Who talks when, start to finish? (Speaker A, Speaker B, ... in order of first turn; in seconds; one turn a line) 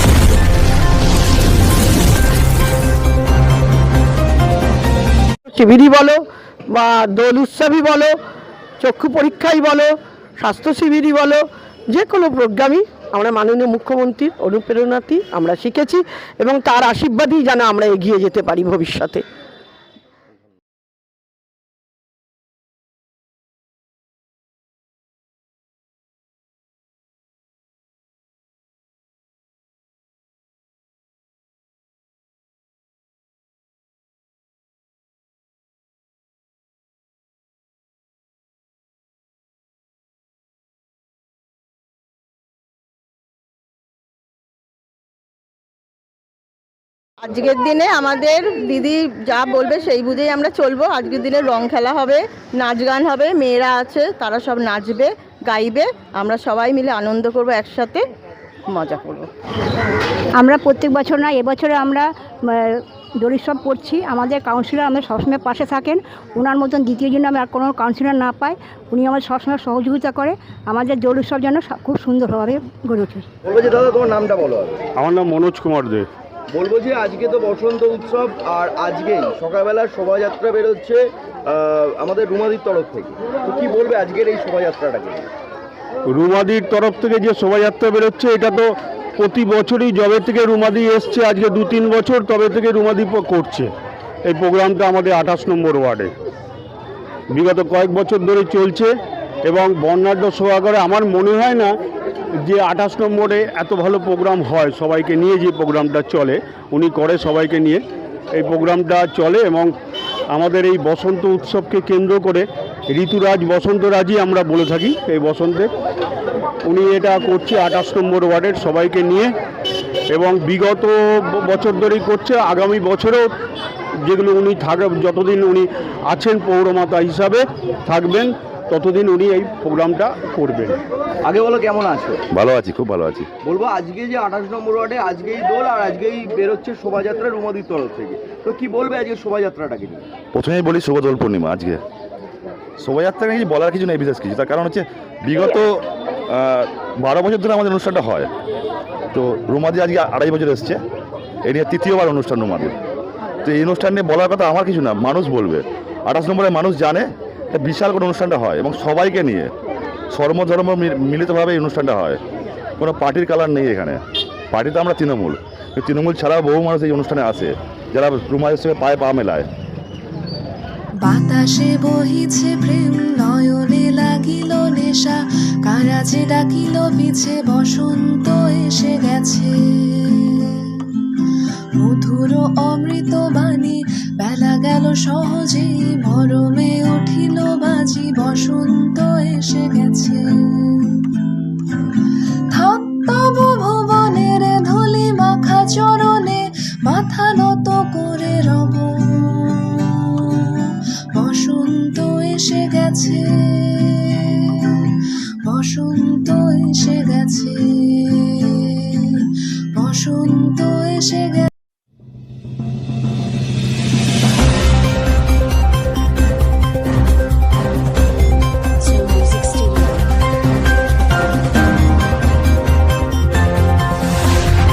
Speaker A: 5.5-8.2
Speaker A: 8.8-19.2
Speaker B: 47.2-58.0
Speaker B: 58.7-59.3
Speaker C: 60.4-73.2
Speaker D: 73.4-74.8
Speaker E: 75.0-76.1
Speaker D: 76.5-85.3
Speaker E: 86.1-93.7
Speaker E: 94.2-96.1
Speaker E: 97.3-98.9
Speaker E: 99.4-101.7
Speaker E: 102.4-107.8
Speaker E: 108.3-109.7
Speaker E: 110.3-115.7
Speaker E: 116.6-119.3
Speaker E: 120.1-123.3
Speaker E: 124.0-130.8
Speaker D: 131.2-132.2
Speaker F: 132.3-133.3
Speaker D: 133.4-140.0
Speaker F: 140.3-141.8
Speaker F: 142.8-148.3
Speaker F: 149.1-150.8
Speaker F: 151.4-152.8
Speaker F: 153.4-159.5
Speaker F: 160.1-162.2
Speaker F: 162.8-164.0
Speaker F: 164.5-169.5
Speaker G: 171.0-180.8
Speaker G: 181.7-191.3
Speaker G: 192.5-211.5